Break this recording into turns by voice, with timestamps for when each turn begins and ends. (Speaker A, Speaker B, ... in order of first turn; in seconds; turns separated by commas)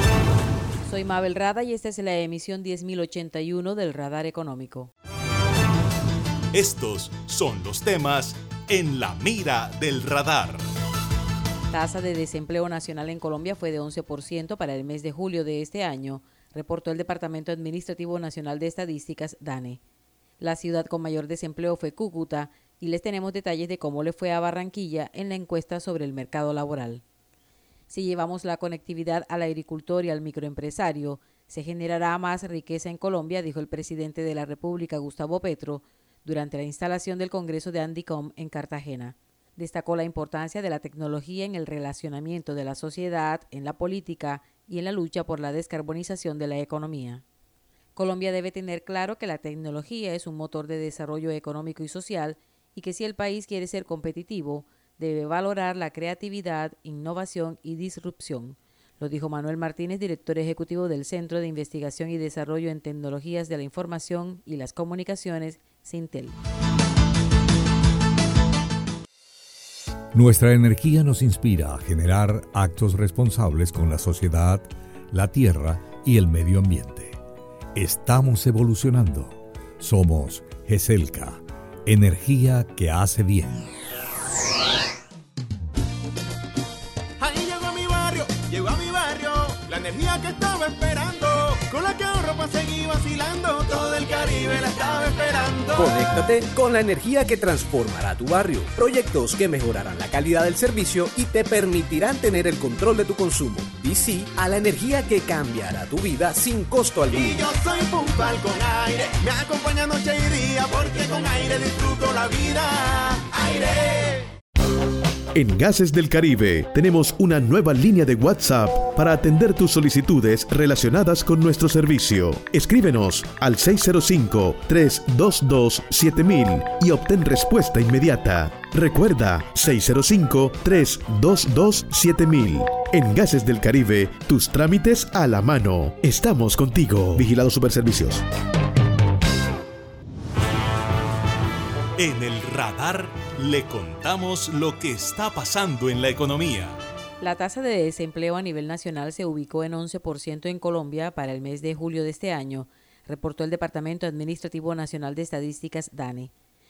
Speaker A: 0.9-4.9, Speaker B: 6.5-10.6, Speaker A: 11.7-19.8, Speaker A: 20.4-27.0, Speaker A: 27.9-47.2, Speaker A: 48.0-66.4, Speaker C: 70.1-77.2, Speaker C: 77.8-83.6, Speaker D: 87.2-96.0, Speaker E: 95.8-107.4, Speaker D: 107.1-112.9, Speaker F: 115.3-138.2, Speaker B: 142.0-146.8, Speaker A: 147.2-156.3